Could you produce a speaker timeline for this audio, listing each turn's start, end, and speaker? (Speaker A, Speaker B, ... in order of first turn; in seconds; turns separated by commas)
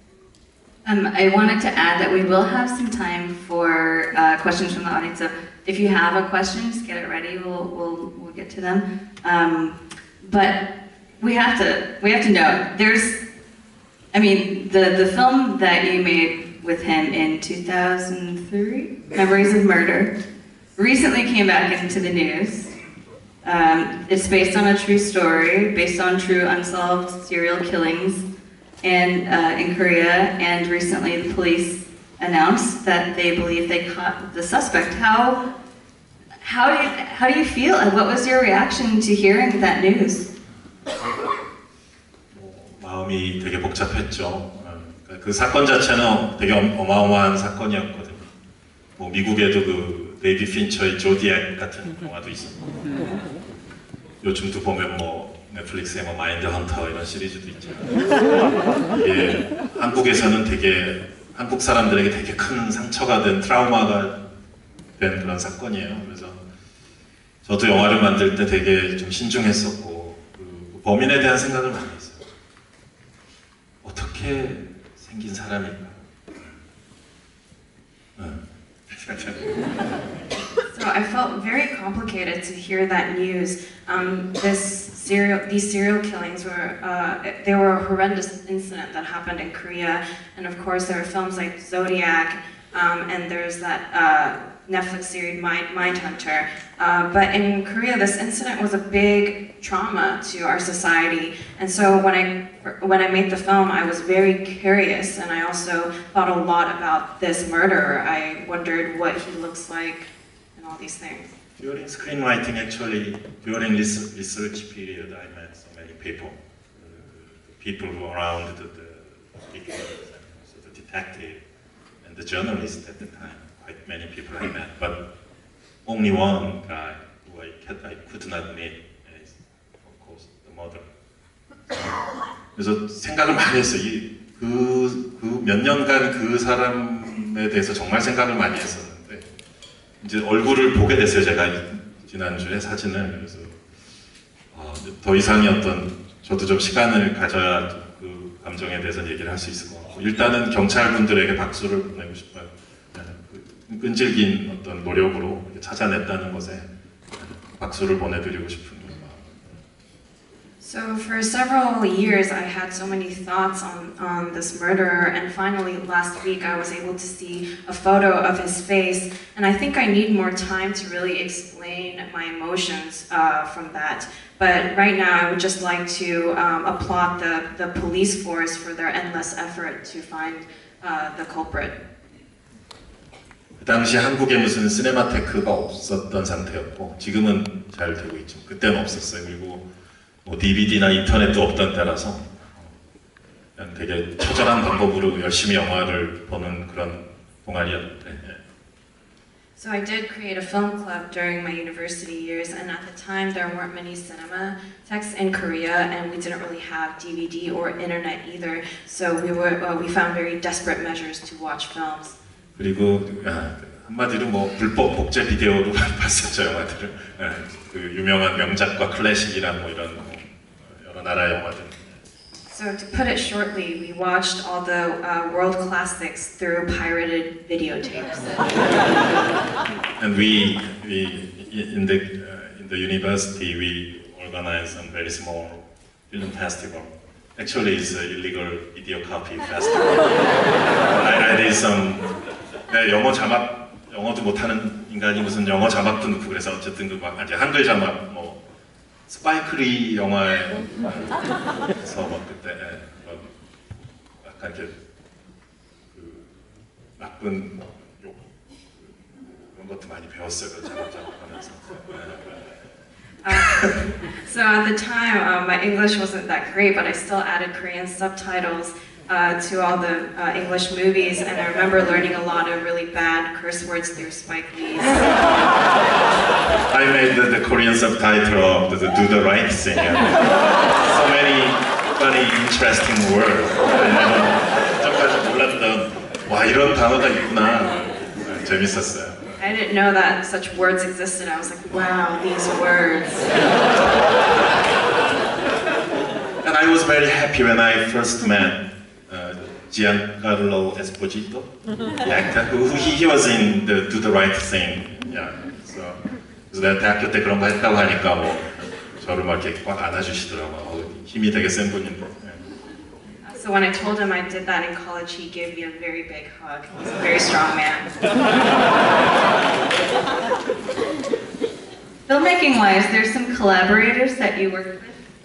Speaker A: 0.8-13.2, Speaker A: 14.1-20.1, Speaker A: 20.8-22.7, Speaker A: 23.4-28.2, Speaker A: 28.8-35.4, Speaker A: 36.4-40.3, Speaker B: 42.3-48.3, Speaker B: 49.0-52.7, Speaker B: 54.2-58.0, Speaker B: 58.9-64.2, Speaker B: 65.0-66.4, Speaker B: 67.4-72.2, Speaker B: 73.8-76.5, Speaker B: 78.2-79.6, Speaker C: 80.7-111.3, Speaker B: 111.6-121.4, Speaker B: 122.0-125.0, Speaker B: 125.8-130.9, Speaker B: 131.7-132.0, Speaker B: 132.5-139.2, Speaker B: 140.0-143.6, Speaker B: 144.5-159.5, Speaker C: 160.6-181.8, Speaker B: 183.6-189.6, Speaker B: 190.2-192.7, Speaker B: 193.6-198.4, Speaker C: 199.6-212.2, Speaker B: 212.5-221.9, Speaker C: 222.5-228.8, Speaker B: 230.0-242.1, Speaker B: 242.7-248.4, Speaker B: 249.1-253.3, Speaker B: 254.2-254.7, Speaker B: 255.9-256.2, Speaker B: 257.0-258.2, Speaker B: 259.5-262.5, Speaker C: 263.2-275.6, Speaker B: 263.3-263.8, Speaker B: 276.7-289.4, Speaker C: 289.4-293.5, Speaker B: 296.4-301.5, Speaker B: 302.0-306.0, Speaker B: 306.5-312.4, Speaker C: 313.2-317.9, Speaker A: 322.1-325.0